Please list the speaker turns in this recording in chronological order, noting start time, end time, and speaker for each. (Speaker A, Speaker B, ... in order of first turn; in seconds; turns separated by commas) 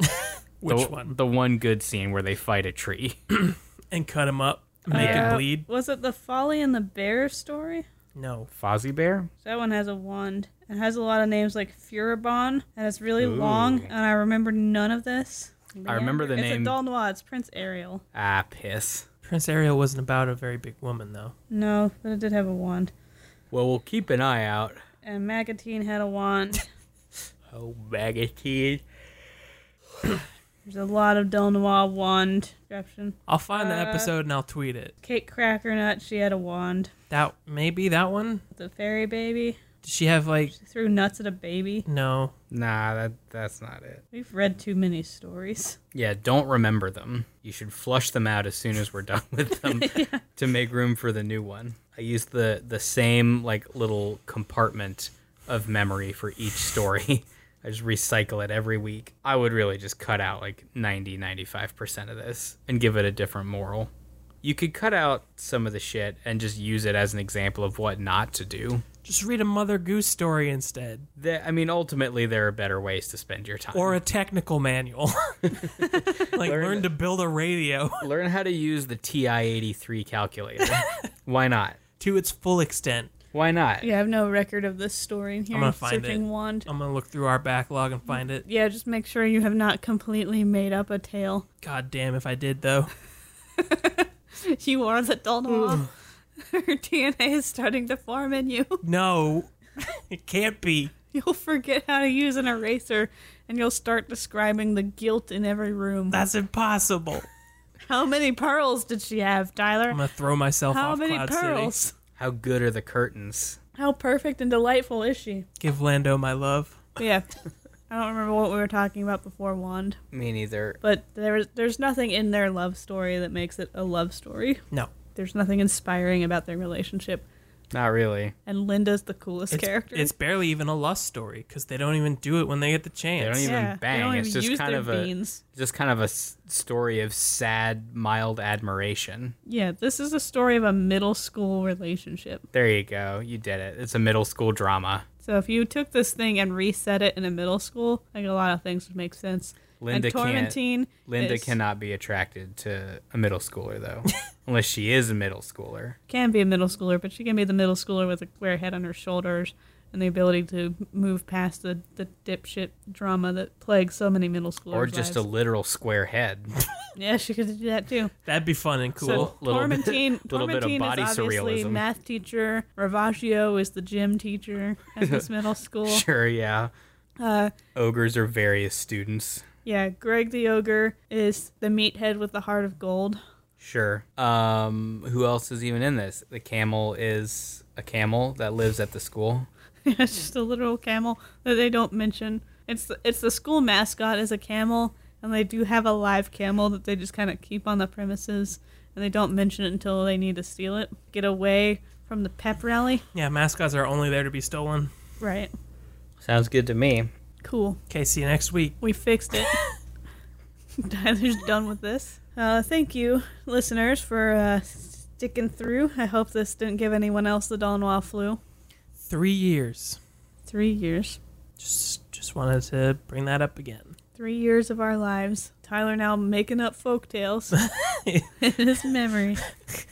Speaker A: 0.2-1.1, Speaker B: 0.7-3.2, Speaker A: 3.3-5.7, Speaker C: 4.9-7.8, Speaker B: 4.9-5.4, Speaker A: 8.1-8.5, Speaker B: 8.5-9.3, Speaker C: 9.4-18.0, Speaker B: 13.2-13.9, Speaker B: 15.8-16.8, Speaker B: 18.1-19.1, Speaker A: 19.2-21.3, Speaker C: 21.5-22.9, Speaker B: 23.5-24.8, Speaker C: 25.0-26.6, Speaker B: 27.5-28.8, Speaker C: 30.6-34.1, Speaker A: 33.3-34.9, Speaker C: 35.0-36.9, Speaker A: 37.1-38.4, Speaker C: 38.5-39.6, Speaker A: 39.8-40.5, Speaker C: 40.5-41.9, Speaker A: 41.9-42.3, Speaker B: 42.5-44.0, Speaker C: 44.1-45.8, Speaker B: 45.9-63.9, Speaker C: 49.5-50.2, Speaker B: 64.4-68.8, Speaker A: 69.0-71.1, Speaker B: 71.2-74.0, Speaker A: 73.7-78.0, Speaker B: 75.5-76.9, Speaker B: 78.0-81.8, Speaker A: 80.6-80.9, Speaker A: 82.0-83.1, Speaker B: 83.3-83.9, Speaker C: 83.8-86.7, Speaker A: 85.5-88.4, Speaker C: 88.1-91.5, Speaker A: 91.6-92.9, Speaker C: 93.6-98.8, Speaker A: 98.8-100.9, Speaker C: 101.1-106.2, Speaker A: 106.1-107.3, Speaker C: 107.9-110.0, Speaker A: 109.9-111.7, Speaker C: 110.7-111.9, Speaker B: 112.2-113.6, Speaker C: 113.8-115.5, Speaker A: 115.6-116.8, Speaker C: 117.0-117.3, Speaker C: 117.9-120.0, Speaker B: 120.1-120.8, Speaker C: 120.8-124.6, Speaker C: 125.1-127.2, Speaker B: 127.7-128.3, Speaker C: 128.4-130.1, Speaker A: 129.5-133.5, Speaker B: 133.2-139.3, Speaker C: 133.4-135.4, Speaker C: 139.4-142.4, Speaker B: 142.5-145.1, Speaker C: 145.2-151.6, Speaker B: 149.8-156.0, Speaker C: 156.1-165.2, Speaker B: 164.7-166.5, Speaker C: 166.9-168.1, Speaker A: 168.2-169.3, Speaker B: 169.0-171.8, Speaker C: 169.0-176.1, Speaker B: 175.0-175.3, Speaker B: 175.9-176.7, Speaker C: 177.2-177.5, Speaker B: 177.7-179.4, Speaker C: 179.6-183.2, Speaker B: 183.6-189.5, Speaker C: 189.8-203.0, Speaker A: 203.1-204.9, Speaker C: 205.2-205.5, Speaker B: 206.2-207.1, Speaker C: 207.4-207.8, Speaker A: 207.9-208.8, Speaker C: 208.8-209.6, Speaker C: 210.8-218.4, Speaker A: 219.0-220.0, Speaker C: 220.5-221.2, Speaker A: 221.6-223.9, Speaker C: 224.2-227.6, Speaker A: 227.5-228.3, Speaker C: 228.4-229.4